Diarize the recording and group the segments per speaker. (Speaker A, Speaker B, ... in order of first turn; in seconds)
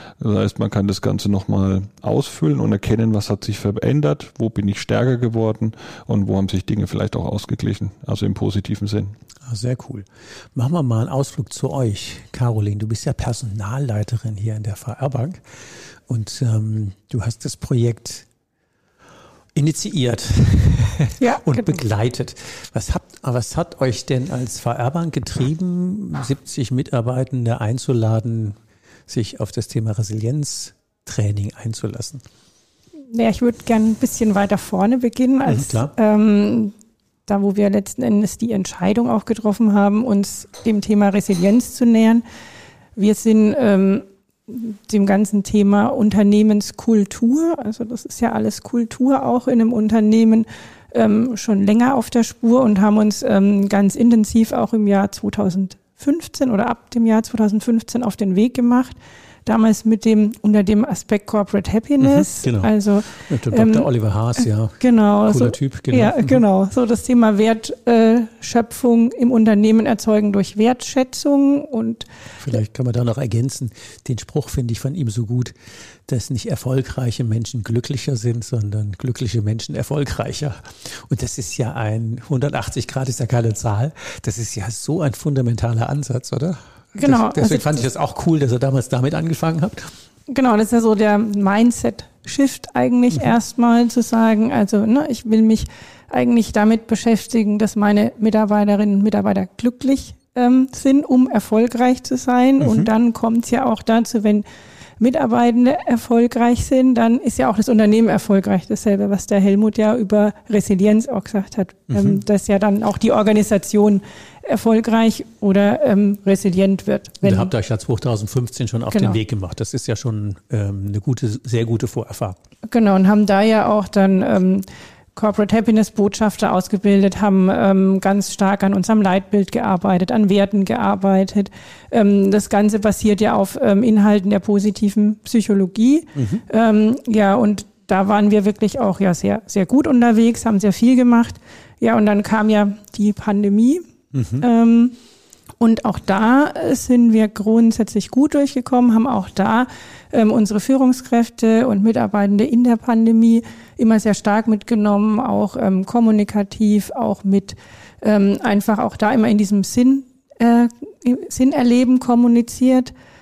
Speaker A: 0.2-9.1
Speaker B: 9.4-15.4, 16.1-18.3, 19.6-28.6, 29.1-32.2, 35.5-35.9, 62.0-66.4, 72.4-75.5, 76.1-89.9, 102.6-102.9, 111.9-112.2, 117.2-122.4, 136.2-136.4, 144.1-144.5
Speaker C: 21.2-21.8, 33.1-36.7, 37.3-42.2, 43.0-72.1, 87.0-87.8, 90.3-104.5, 105.0-117.5, 118.9-119.2, 122.7-143.8, 144.4-145.0, 145.6-162.9